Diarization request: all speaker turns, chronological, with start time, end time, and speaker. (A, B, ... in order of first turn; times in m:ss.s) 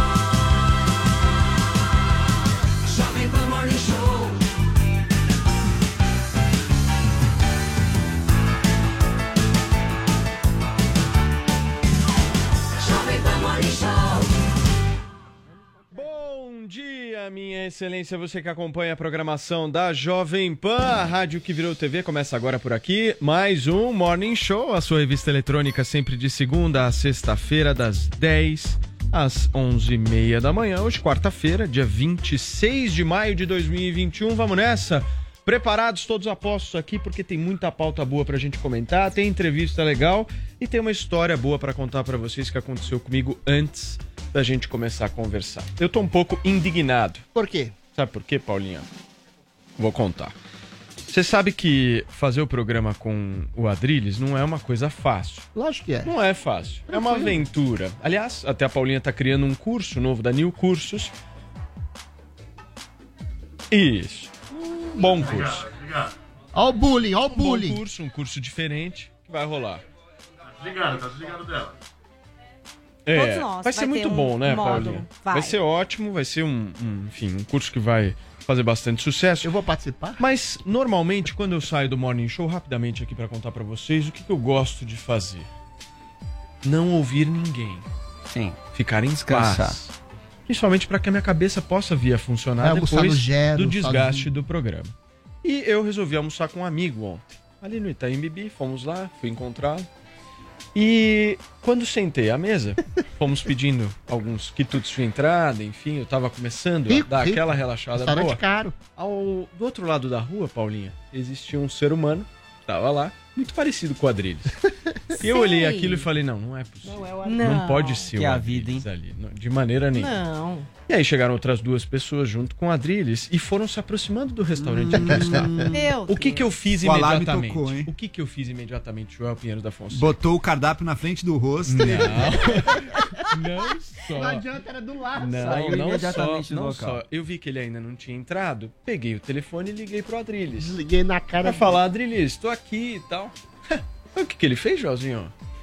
0:15.9-0:47.2 A
0:47.4-0:47.8 B
0:48.0-0:48.9 A
0:49.8-0:50.3 A
0:51.1-0:55.5 A
0:55.6-0:56.1 B
0:56.0-1:01.1 A
0:56.9-0:57.4 B
1:03.7-1:05.7 A
1:06.6-1:07.8 B
1:07.3-1:09.8 A
1:13.1-1:19.5 A
1:13.1-1:15.6 C
1:19.4-1:20.2 B
1:20.2-1:25.5 A
1:26.6-1:27.9 A
1:28.3-1:28.6 D
1:28.7-1:29.9 A
1:29.3-1:29.8 D
1:30.5-1:39.9 A
1:32.6-1:34.3 B
1:40.8-1:48.4 A
1:46.9-1:47.4 B
1:48.0-1:48.8 B
1:49.0-1:54.6 A
1:55.2-1:56.0 C
1:55.2-2:00.2 A
1:57.2-1:58.1 C
1:58.1-1:58.9 D
2:00.0-2:00.7 C
2:00.9-2:10.1 A
2:04.9-2:05.9 E
2:04.9-2:05.6 B
2:05.7-2:06.5 C
2:06.8-2:07.9 E
2:09.9-2:12.3 E
2:11.7-2:14.4 A
2:11.8-2:12.2 B
2:13.6-2:15.7 B
2:15.2-2:20.8 A
2:15.4-2:17.0 D
2:20.6-2:21.8 B
2:21.4-2:25.3 A